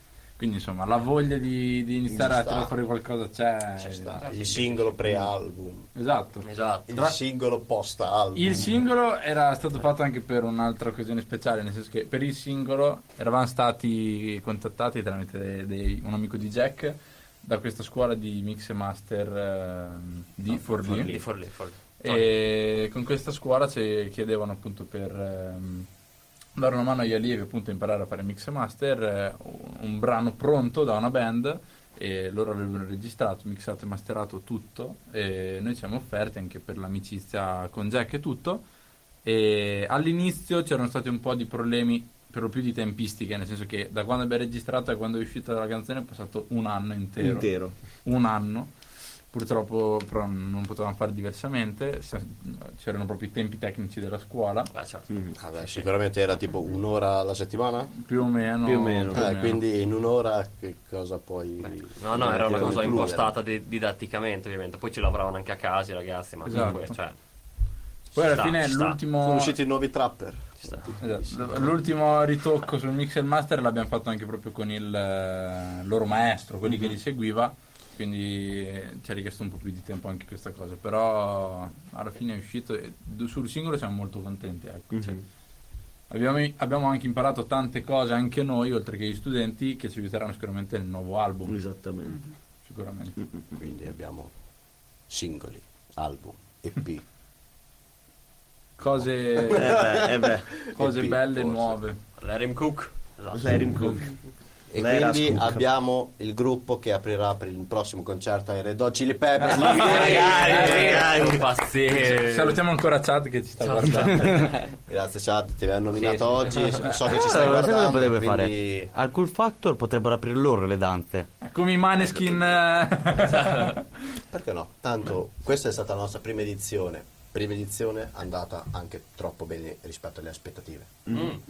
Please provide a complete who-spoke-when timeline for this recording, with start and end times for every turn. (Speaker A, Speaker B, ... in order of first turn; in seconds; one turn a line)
Speaker A: 0.4-5.2
Speaker B: 2.1-2.7
Speaker C: 3.8-4.5
Speaker B: 4.1-5.9
Speaker A: 5.9-6.5
Speaker C: 6.4-6.9
Speaker B: 6.9-8.7
Speaker A: 8.3-21.2
Speaker C: 20.5-22.3
Speaker A: 22.0-25.9
Speaker A: 26.6-38.6
Speaker A: 39.2-47.5
Speaker D: 47.2-47.7
Speaker A: 48.0-48.7
Speaker A: 49.3-54.7
Speaker C: 54.7-55.1
Speaker D: 55.1-55.4
Speaker B: 55.4-57.9
Speaker A: 58.0-59.6
Speaker D: 58.6-59.3
Speaker B: 59.1-63.3
Speaker C: 61.6-67.2
Speaker A: 66.5-66.8
Speaker A: 68.1-69.6
Speaker C: 68.2-69.0
Speaker B: 69.2-71.0
Speaker C: 70.6-70.9
Speaker A: 71.0-85.2
Speaker D: 84.9-85.2
Speaker A: 86.1-91.5
Speaker D: 91.5-92.2
Speaker A: 92.6-93.2
Speaker D: 93.2-93.6
Speaker B: 93.6-94.3
Speaker B: 95.1-97.0
Speaker A: 98.8-99.8
Speaker B: 99.5-101.7
Speaker D: 99.5-100.5
Speaker A: 100.7-102.0
Speaker C: 102.2-103.4
Speaker D: 103.3-104.1
Speaker B: 104.7-111.3
Speaker D: 104.8-105.6
Speaker A: 109.6-111.0
Speaker C: 109.6-112.6
Speaker D: 109.7-111.5
Speaker A: 111.8-114.5
Speaker C: 113.6-114.5
Speaker B: 114.8-118.9
Speaker C: 116.0-116.8
Speaker E: 117.0-121.3
Speaker A: 121.4-123.8
Speaker C: 123.3-123.7
Speaker B: 124.3-130.9
Speaker D: 131.1-131.4
Speaker C: 131.1-131.4